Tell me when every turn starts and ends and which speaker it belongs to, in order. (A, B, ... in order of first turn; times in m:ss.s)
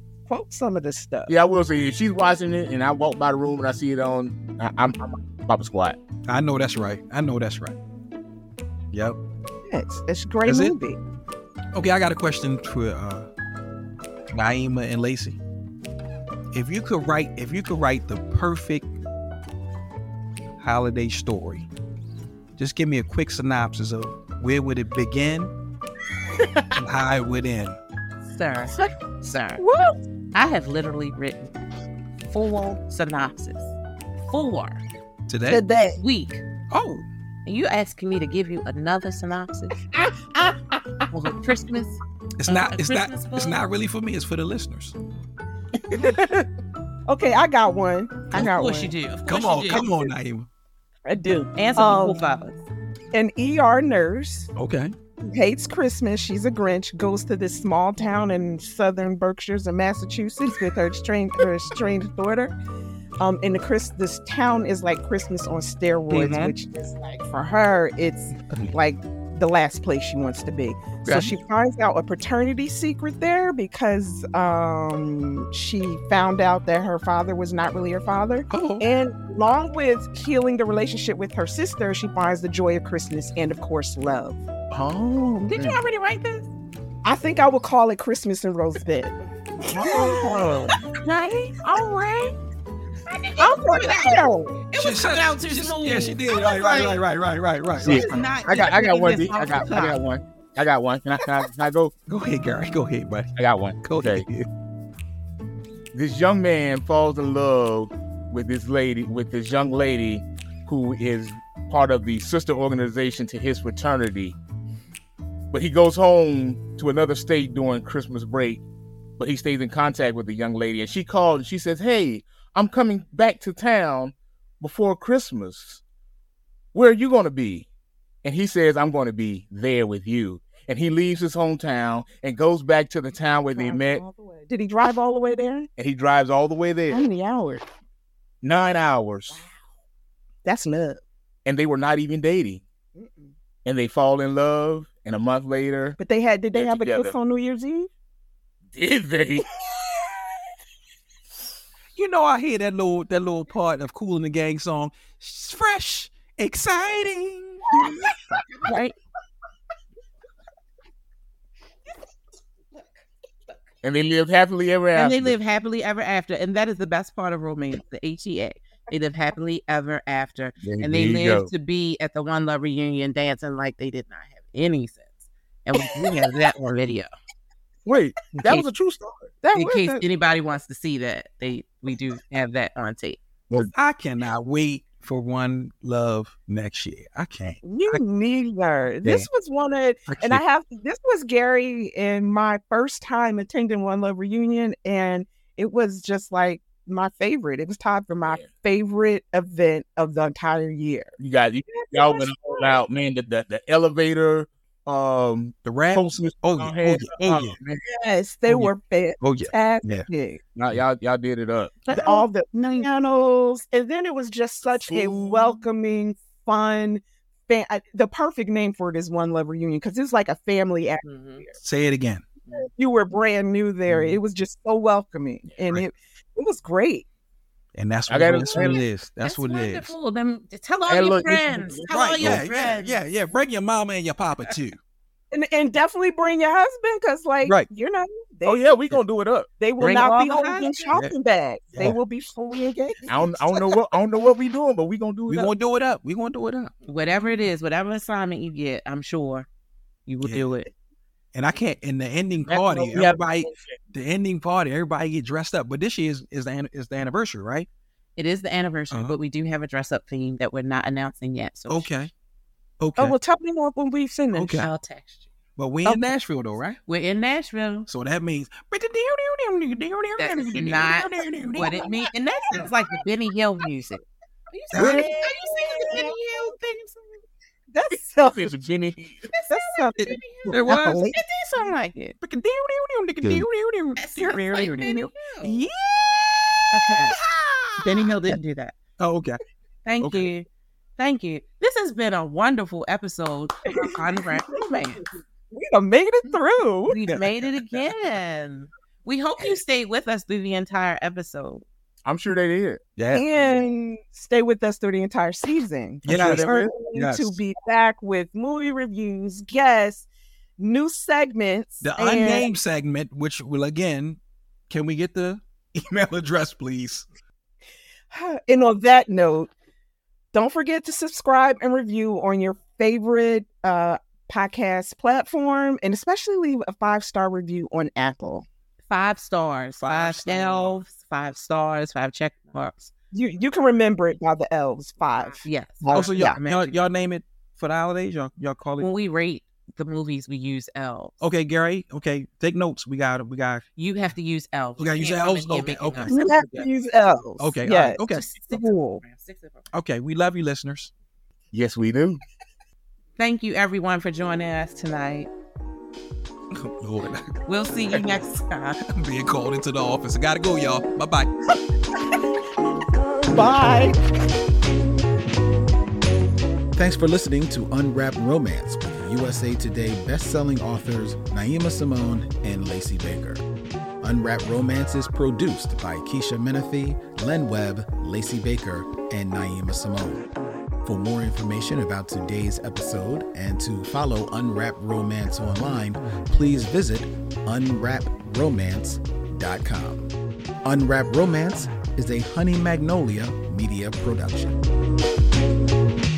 0:00.3-0:01.3 A
0:01.3-0:06.0 B
0:06.3-0:07.8 C
0:08.9-0:09.2 C
0:09.7-0:11.0 A
0:10.4-0:10.8 C
0:11.7-0:13.3 C
0:14.3-0:15.4 C
0:16.5-0:18.9 C
0:20.6-0:21.7 C
0:22.6-0:25.5 C
0:26.7-0:27.8 C
0:28.2-0:29.6 D
0:29.6-0:30.0 A
0:30.3-0:31.5 D
0:32.3-0:34.8 D
0:35.3-0:35.6 C
0:35.5-0:36.0 A
0:35.9-0:36.4 D
0:36.7-0:37.0 C
0:37.4-0:39.7 D
0:39.9-0:41.0 A
0:41.1-0:43.6 D
0:42.4-0:45.0 C
0:45.9-0:46.4 A
0:47.1-0:48.9 A
0:48.3-0:49.9 D
0:49.3-0:50.5 C
0:49.7-0:50.0 A
0:51.0-0:52.2 A
0:51.6-0:52.6 D
0:53.1-0:54.5 A
0:54.6-0:54.9 C
0:55.2-1:02.5 A
1:03.2-1:24.4 A
1:06.1-1:06.5 C
1:11.0-1:11.4 C
1:18.5-1:18.8 C
1:24.7-1:25.8 B
1:25.5-1:26.4 D
1:27.0-1:30.7 A
1:29.7-1:30.8 B
1:29.9-1:30.4 D
1:30.9-1:32.3 D
1:33.1-1:37.0 D
1:33.4-1:34.6 A
1:34.8-1:38.2 C
1:37.8-1:41.9 B
1:37.8-1:40.0 D
1:42.1-1:44.5 C
1:43.4-1:44.2 B
1:45.9-1:54.4 B
1:55.5-1:58.6 B
1:59.2-2:05.8 B
2:06.7-2:07.7 B
2:08.2-2:14.0 B
2:13.5-2:15.7 A
2:15.8-2:17.0 B
2:16.9-2:17.6 A
2:18.4-2:19.4 B
2:19.3-2:19.6 A
2:20.4-2:21.0 A
2:21.4-2:22.6 B
2:23.0-2:23.3 A
2:23.6-2:26.0 B
2:26.0-2:27.9 A
2:26.5-2:27.2 B
2:28.7-2:29.6 B
2:32.0-2:37.7 C
2:38.6-2:39.0 D
2:43.8-2:45.3 B
2:44.9-2:57.1 D
2:50.6-2:51.5 B
2:57.8-2:59.3 B
2:59.4-3:00.0 A
2:59.5-3:03.2 D
3:03.5-3:08.0 C
3:07.6-3:21.1 A
3:10.1-3:10.4 C
3:21.2-3:27.8 B
3:21.7-3:22.8 A
3:25.6-3:27.6 C
3:27.8-3:30.4 A
3:28.5-3:30.1 C
3:30.5-3:31.9 B
3:31.9-3:32.2 D
3:31.9-3:41.6 A
3:34.8-3:35.4 B
3:41.0-3:41.4 D
3:41.6-3:42.2 C
3:42.6-3:47.0 A
3:43.9-3:44.2 C
3:47.7-3:49.9 C
3:48.1-3:48.8 B
3:48.6-3:53.0 D
3:50.9-3:52.4 B
3:51.9-3:54.8 C
3:55.3-3:58.7 A
3:58.4-3:59.5 B
3:59.6-4:03.8 A
3:59.8-4:00.9 D
4:03.1-4:05.5 B
4:05.3-4:06.7 C
4:06.9-4:09.5 D
4:10.1-4:10.7 D
4:10.2-4:10.5 C
4:11.3-4:17.7 C
4:12.5-4:13.0 D
4:12.9-4:13.6 B
4:18.2-4:21.9 D
4:18.9-4:19.2 C
4:21.7-4:22.1 C
4:22.8-4:23.2 C
4:23.0-4:24.7 A
4:24.3-4:24.7 C
4:24.6-4:25.3 D
4:25.6-4:26.8 C
4:26.9-4:27.9 D
4:27.9-4:32.7 C
4:30.2-4:37.2 D
4:34.7-4:35.0 C
4:34.7-4:36.1 B
4:34.8-4:35.3 A
4:37.7-4:38.5 A
4:37.9-4:39.3 B
4:39.3-4:42.1 D
4:39.5-4:41.2 A
4:40.0-4:41.1 C
4:42.2-4:46.6 C
4:44.0-4:45.5 D
4:44.8-4:45.1 A
4:46.7-4:47.2 D
4:47.8-4:48.7 D
4:49.0-4:49.4 C
4:49.8-4:55.0 D
4:50.0-4:50.3 C
4:53.7-4:54.0 A
4:55.5-4:57.0 A
4:56.9-5:01.6 D
4:57.1-4:57.8 C
5:02.0-5:02.8 B
5:03.0-5:03.2 C
5:03.1-5:10.1 A
5:06.0-5:06.7 B
5:06.0-5:07.4 C
5:10.6-5:12.5 A
5:11.8-5:14.2 C
5:14.7-5:17.0 C
5:18.1-5:19.5 A
5:20.3-5:28.4 A
5:28.9-5:32.9 D
5:29.8-5:30.8 C
5:33.1-5:36.4 A
5:35.4-5:36.8 D
5:35.9-5:38.8 C
5:38.8-5:41.1 D
5:41.2-5:43.6 C
5:43.8-5:46.7 D
5:44.8-5:46.7 C
5:46.1-5:49.0 A
5:47.4-5:48.3 C
5:48.1-5:49.7 D
5:49.7-5:50.9 C
5:51.5-5:52.2 B
5:53.2-5:55.3 D
5:56.5-5:58.2 C
5:57.4-5:58.8 D
5:58.8-6:01.3 C
6:03.1-6:04.0 A
6:06.7-6:13.4 E
6:14.0-6:20.2 E
6:20.8-6:30.1 E
6:30.6-6:34.6 E